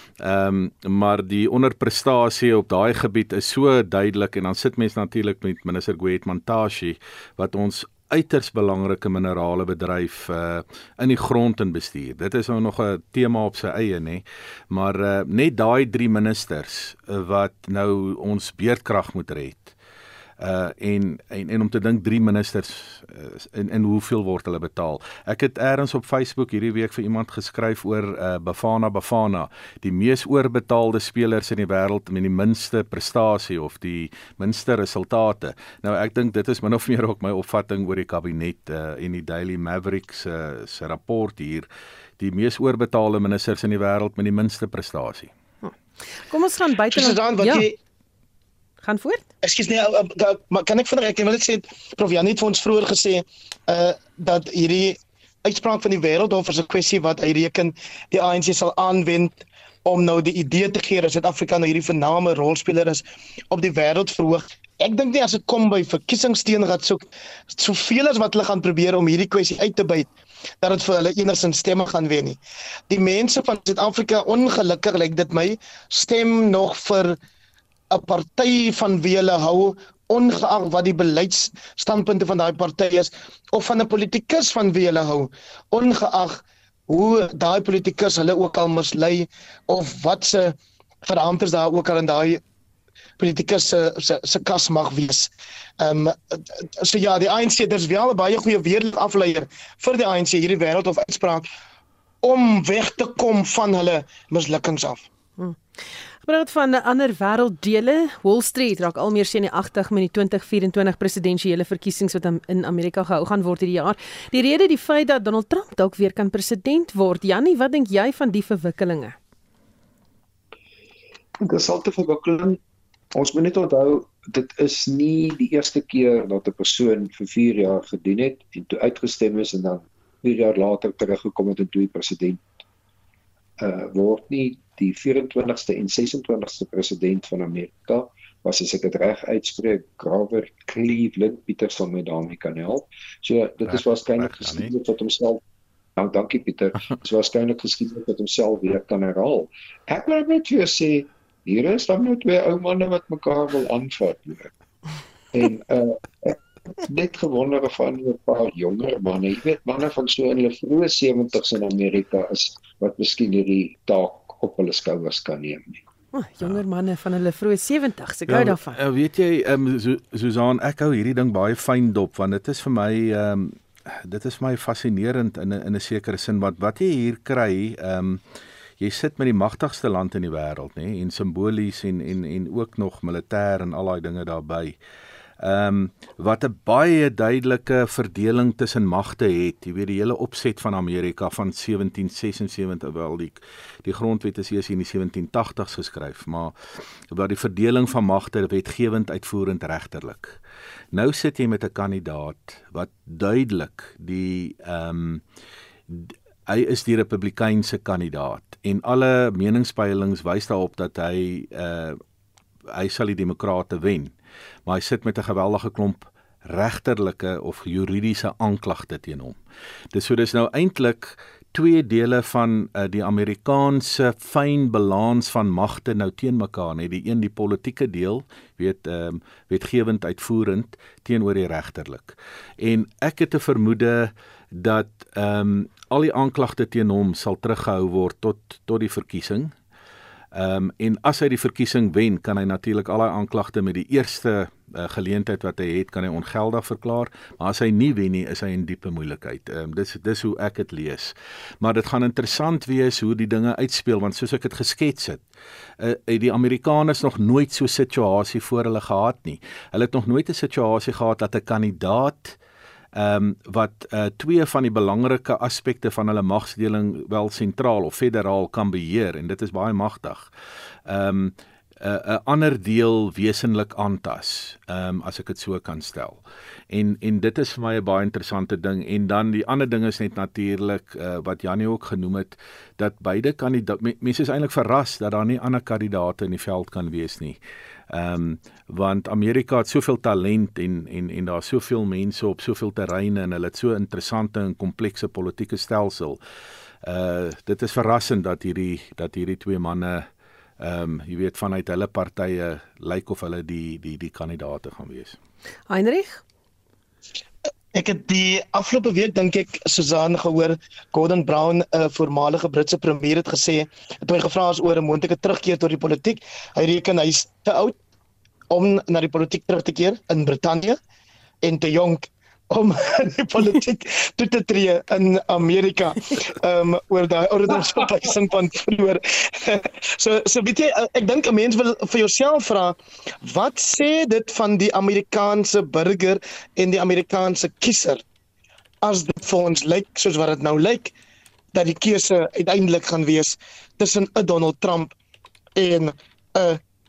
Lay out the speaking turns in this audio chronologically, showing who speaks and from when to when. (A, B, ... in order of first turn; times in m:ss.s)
0:00.2-0:19.7 A
0:20.4-0:41.7 A
0:42.2-0:45.3 A
0:45.6-0:47.7 B
0:46.9-0:47.8 C
0:48.8-0:49.2 B
0:49.4-1:10.1 C
1:10.6-1:17.2 C
1:17.9-1:32.4 C
1:33.2-1:41.5 C
1:42.2-1:45.0 C
1:46.2-1:59.2 B
2:01.4-2:02.6 D
2:03.1-2:12.4 D
2:13.6-2:25.4 D
2:23.7-2:24.7 A
2:26.0-2:34.5 D
2:35.3-2:45.8 D
2:46.1-2:48.8 B
2:48.3-2:58.2 A
2:58.8-3:04.8 A
3:05.4-3:16.5 A
3:17.1-3:20.4 A
3:20.9-3:25.2 A
3:25.9-3:32.0 A
3:32.7-3:34.1 A
3:34.6-3:39.4 A
3:39.9-3:59.5 A
4:00.3-4:15.2 A
4:15.8-4:22.4 A
4:22.9-4:30.3 A
4:30.9-4:47.4 A
4:47.9-4:56.2 A
4:56.8-5:00.1 A
5:00.6-5:05.2 A
5:05.7-5:06.2 B
5:07.7-5:17.8 C
5:18.5-5:20.8 C
5:21.4-5:38.0 C
5:38.8-5:40.9 C
5:41.5-5:44.9 C
5:45.6-5:46.6 C